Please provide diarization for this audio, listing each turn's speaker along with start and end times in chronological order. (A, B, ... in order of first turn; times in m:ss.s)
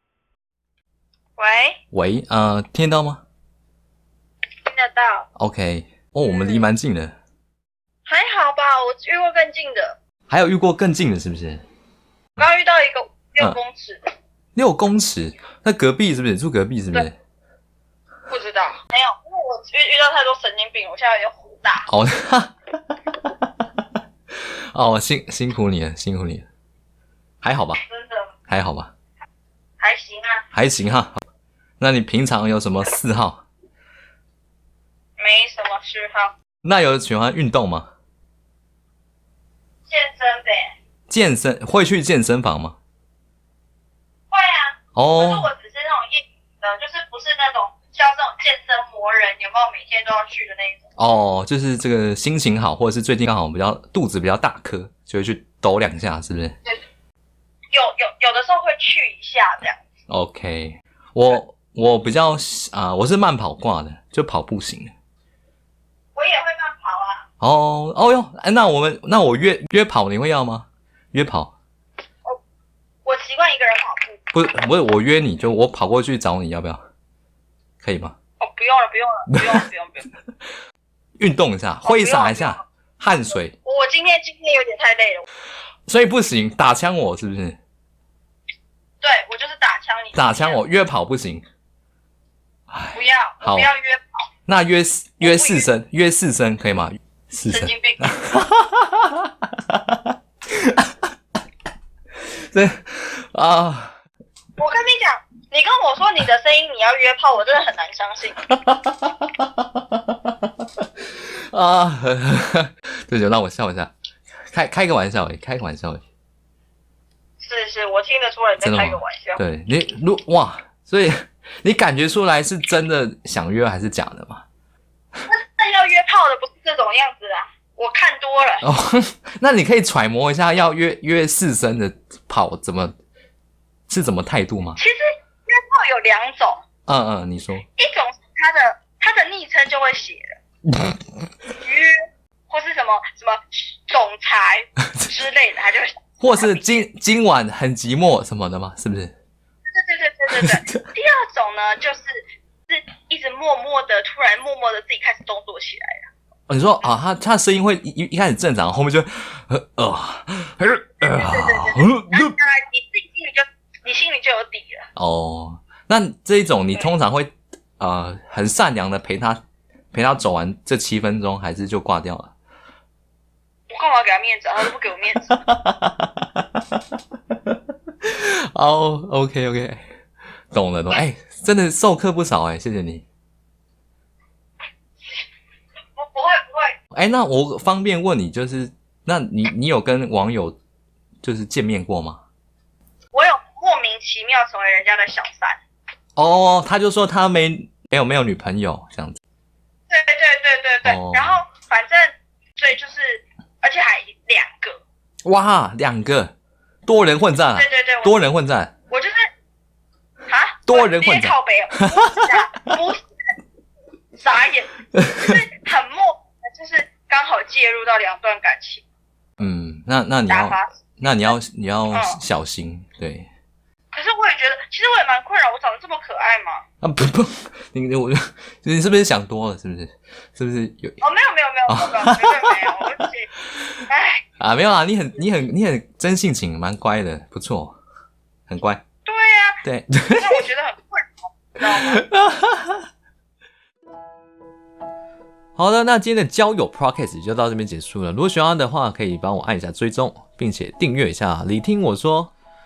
0:01.4-0:01.8 A
0:01.9-0:03.2 B
0:04.6-0:05.3 A
0:05.4-0:07.1 B
0:06.2-0:06.6 A
0:08.0-0:10.0 A
0:10.3-0:11.6 B
0:12.4-0:14.1 A
0:14.5-0:17.2 B
0:18.3-0:21.9 A
0:21.9-0:22.5 B
0:24.4-0:26.4 B
0:27.4-0:27.8 B
0:27.8-0:28.3 A
0:28.5-0:28.9 B
0:29.8-0:30.4 A
0:30.5-0:31.2 B
0:31.8-0:33.4 B
0:35.2-0:36.3 A
0:36.6-0:37.9 B
0:39.9-0:40.7 A
0:41.1-0:42.8 B
0:44.3-0:50.8 A
0:44.9-0:45.5 B
0:51.0-0:56.5 B
0:57.7-0:59.8 A
1:00.1-1:04.9 B
1:06.1-1:07.2 A
1:07.4-1:11.5 B
1:13.0-1:14.2 A
1:14.3-1:16.8 B
1:17.8-1:18.2 B
1:18.4-1:20.1 A
1:21.2-1:23.5 B
1:21.8-1:22.6 A
1:23.6-1:25.2 A
1:25.9-1:27.6 B
1:29.0-1:30.6 A
1:30.1-1:31.4 B
1:32.7-1:33.7 B
1:32.9-1:34.0 A
1:34.5-1:40.9 B
1:35.2-1:35.7 A
1:37.5-1:38.2 A
1:42.2-1:44.0 B
1:44.6-1:48.4 A
1:48.5-1:50.3 B
1:51.2-1:53.9 B
1:54.5-1:56.0 B
1:57.4-1:59.4 A
1:58.6-2:04.4 B
2:05.3-2:08.6 A
2:08.6-2:13.0 B
2:13.9-2:14.8 B
2:14.8-2:16.6 A
2:16.9-2:17.6 B
2:17.7-2:20.4 A
2:21.6-2:26.8 A
2:26.2-2:29.1 B
2:29.7-2:36.1 A
2:36.5-2:42.3 B
2:41.0-2:44.8 A
2:45.0-2:49.4 B
2:49.9-2:52.3 B
2:53.7-2:55.4 A
2:55.3-2:56.1 B
2:58.0-2:59.8 B
3:00.5-3:03.0 B
3:06.0-3:06.8 A
3:06.9-3:10.6 B
3:11.2-3:12.2 B
3:13.1-3:15.6 A
3:16.2-3:19.2 B
3:19.9-3:24.8 A
3:20.8-3:21.4 B
3:25.2-3:26.3 B
3:26.8-3:28.7 B
3:27.5-3:28.2 A
3:28.9-3:29.2 A
3:30.3-3:33.0 A
3:30.7-3:31.3 B
3:34.2-3:38.8 A
3:35.0-3:35.4 B
3:39.4-3:43.3 B
3:40.3-3:41.3 A
3:41.9-3:42.2 A
3:43.9-3:46.6 A
3:46.8-3:51.0 B
3:51.0-3:53.3 A
3:51.7-3:52.9 B
3:53.9-3:54.2 A
3:54.4-3:57.7 B
3:58.5-3:58.8 B
3:59.0-3:59.6 A
3:59.6-4:00.4 B
4:00.1-4:02.0 A
4:01.6-4:02.8 B
4:05.6-4:12.3 C
4:09.9-4:10.6 B